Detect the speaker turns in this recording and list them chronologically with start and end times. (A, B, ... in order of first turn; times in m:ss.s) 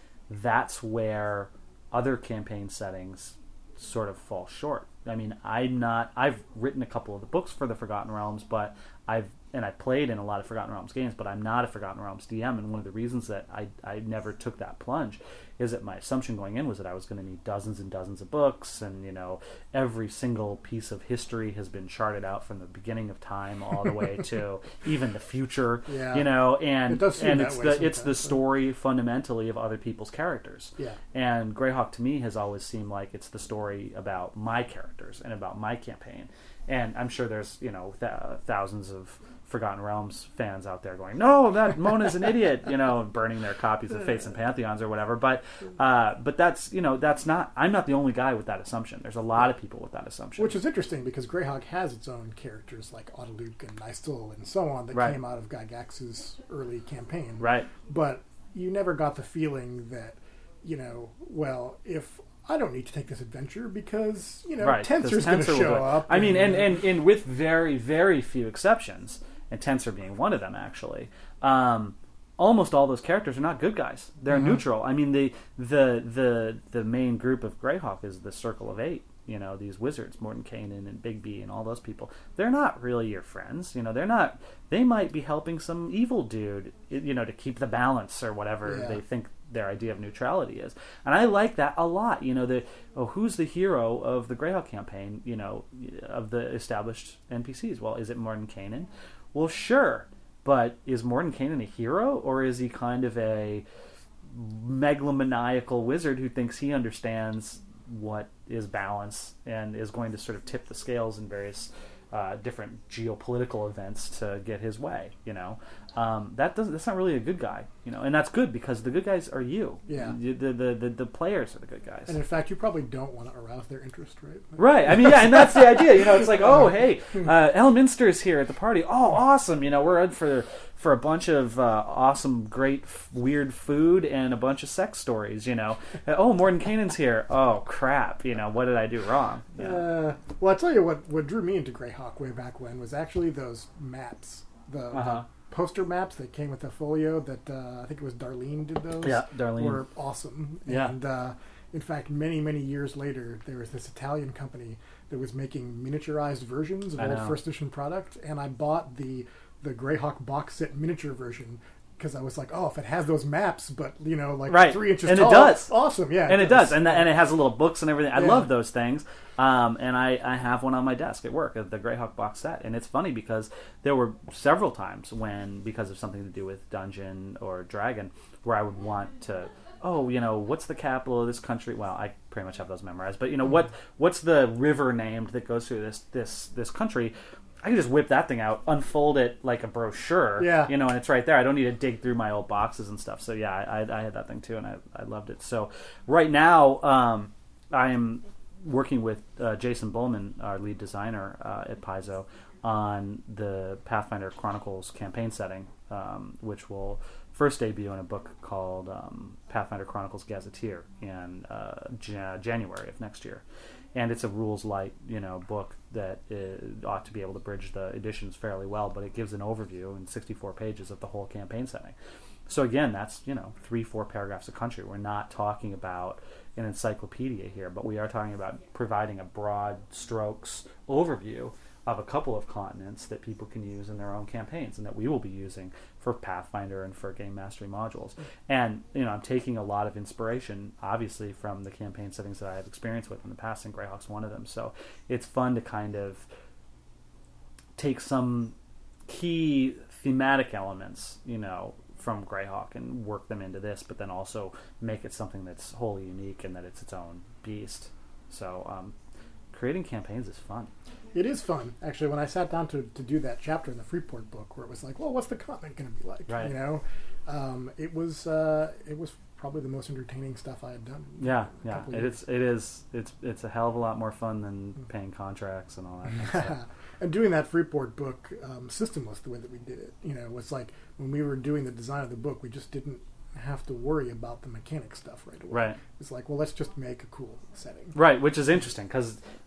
0:00.3-0:50.6 A
0:25.9-0:28.3 B
0:50.4-1:06.6 B
0:57.4-0:57.7 A
1:04.6-1:43.6 A
1:28.6-1:29.0 B
1:44.3-2:02.2 A
1:59.9-2:00.2 B
2:02.1-2:05.8 B
2:04.6-2:19.8 A
2:19.6-2:47.1 B
2:24.9-2:25.2 A
2:29.0-2:29.8 A
2:30.7-2:30.9 A
2:37.0-2:37.4 A
2:44.5-2:45.7 A
2:46.2-3:33.4 A
2:48.1-2:48.5 B
3:10.4-3:10.7 B
3:33.9-3:41.9 A
3:42.5-4:06.2 A
4:07.8-4:08.5 A
4:09.1-4:18.9 A
4:19.5-4:20.7 A
4:21.1-4:32.1 B
4:26.3-4:26.6 A
4:31.2-4:36.6 A
4:36.1-4:48.0 B
4:45.5-4:45.8 A
4:47.9-4:49.2 A